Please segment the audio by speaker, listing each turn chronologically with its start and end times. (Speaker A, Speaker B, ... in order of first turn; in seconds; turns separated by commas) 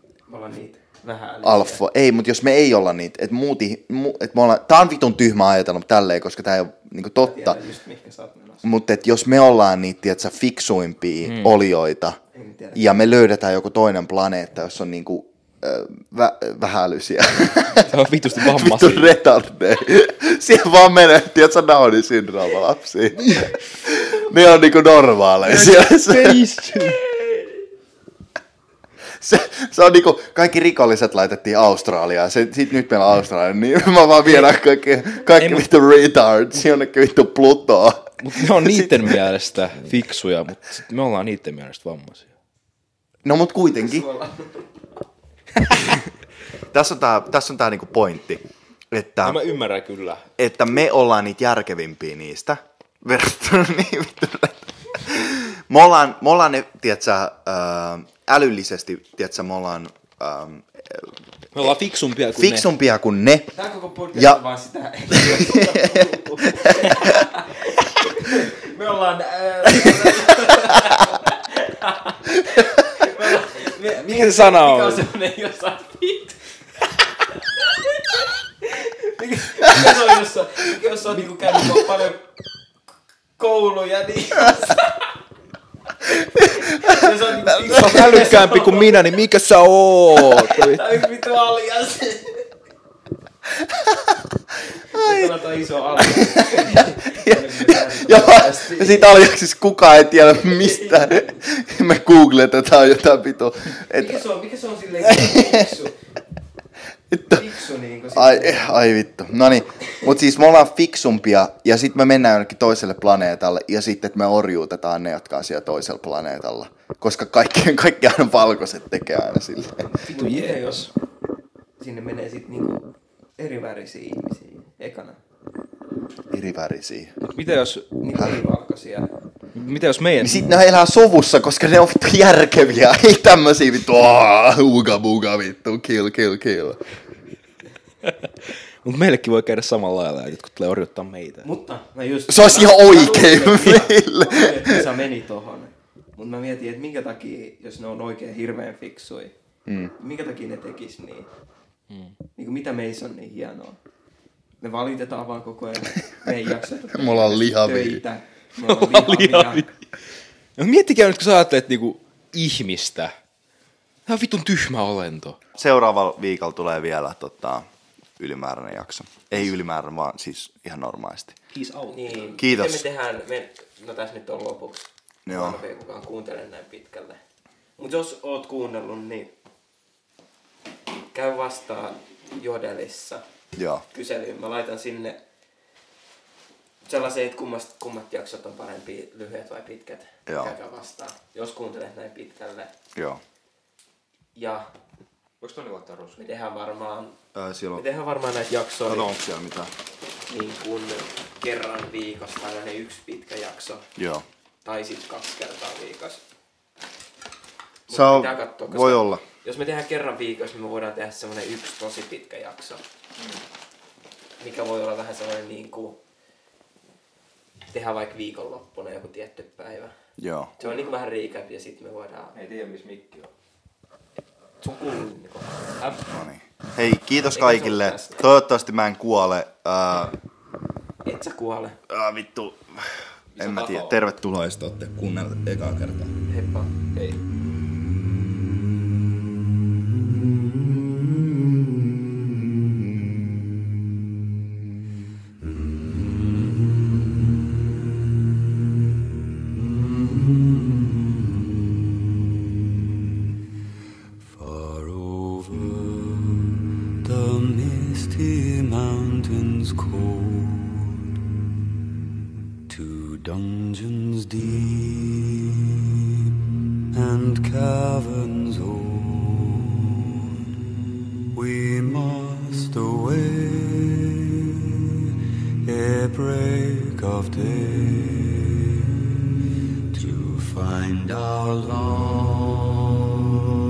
Speaker A: 0.3-1.8, Speaker B: 1.4-7.6, Speaker A: 7.2-8.7, Speaker B: 8.6-12.2, Speaker C: 11.2-11.5, Speaker A: 12.3-12.8, Speaker B: 12.7-26.5, Speaker C: 17.8-19.1, Speaker C: 25.4-27.0, Speaker A: 27.2-27.5, Speaker B: 29.2-39.2, Speaker C: 35.3-35.6, Speaker C: 38.2-42.3, Speaker B: 43.2-44.1, Speaker A: 43.8-44.7, Speaker B: 46.7-49.4, Speaker C: 49.2-50.2, Speaker B: 50.4-61.8, Speaker C: 61.5-62.7, Speaker B: 62.3-63.5, Speaker A: 63.5-76.4, Speaker B: 64.1-64.4, Speaker B: 65.1-67.2, Speaker C: 74.0-75.1, Speaker A: 77.3-82.2, Speaker A: 83.4-85.1, Speaker A: 86.2-89.0, Speaker B: 86.4-88.3, Speaker C: 87.6-90.9, Speaker A: 90.3-92.4, Speaker B: 93.7-94.2, Speaker A: 94.9-99.1, Speaker B: 94.9-95.3, Speaker B: 96.0-104.2, Speaker A: 100.4-101.3, Speaker A: 103.9-105.9, Speaker B: 105.2-105.7, Speaker B: 107.1-107.5, Speaker A: 107.3-108.7, Speaker B: 108.2-119.9, Speaker A: 119.9-120.9, Speaker C: 120.1-120.9, Speaker A: 121.8-125.2, Speaker B: 126.3-127.2, Speaker C: 127.2-127.9, Speaker A: 128.0-129.1, Speaker C: 129.5-130.4, Speaker B: 130.2-136.8, Speaker C: 138.0-141.5, Speaker A: 141.4-149.3, Speaker B: 142.3-144.8, Speaker B: 149.7-149.9, Speaker A: 150.0-151.3, Speaker C: 151.9-152.1, Speaker A: 152.3-153.8, Speaker A: 154.6-159.7, Speaker B: 156.9-158.0, Speaker C: 158.6-159.7, Speaker C: 160.6-163.1, Speaker C: 164.1-165.4, Speaker B: 165.5-167.6, Speaker B: 168.2-171.3, Speaker C: 171.5-172.3, Speaker A: 171.9-177.2, Speaker B: 172.4-172.8, Speaker B: 175.2-175.6, Speaker A: 177.8-179.3, Speaker A: 181.1-183.2, Speaker B: 183.6-183.8, Speaker A: 183.9-185.2, Speaker A: 186.8-192.7, Speaker B: 190.3-190.6, Speaker B: 192.9-193.2, Speaker A: 194.3-194.7, Speaker C: 195.4-196.2, Speaker A: 196.2-197.2, Speaker B: 197.3-197.8, Speaker A: 197.8-199.1, Speaker B: 198.8-199.7, Speaker A: 200.3-203.8, Speaker B: 203.9-204.2, Speaker A: 204.6-206.2, Speaker A: 207.9-212.8, Speaker B: 207.9-209.2, Speaker A: 214.4-216.0, Speaker A: 217.7-219.9, Speaker B: 220.2-220.5, Speaker A: 220.6-222.4, Speaker C: 222.3-223.3, Speaker A: 224.6-226.1, Speaker B: 226.0-230.1, Speaker A: 227.2-228.2, Speaker A: 231.0-231.8, Speaker B: 231.9-236.1, Speaker C: 233.3-234.0, Speaker A: 236.3-236.8, Speaker C: 236.9-237.2, Speaker D: 245.4-247.1, Speaker D: 249.5-251.9, Speaker D: 254.2-261.0, Speaker D: 262.7-265.9, Speaker D: 266.9-269.9, Speaker D: 271.3-274.9, Speaker D: 275.6-278.9, Speaker D: 279.9-283.5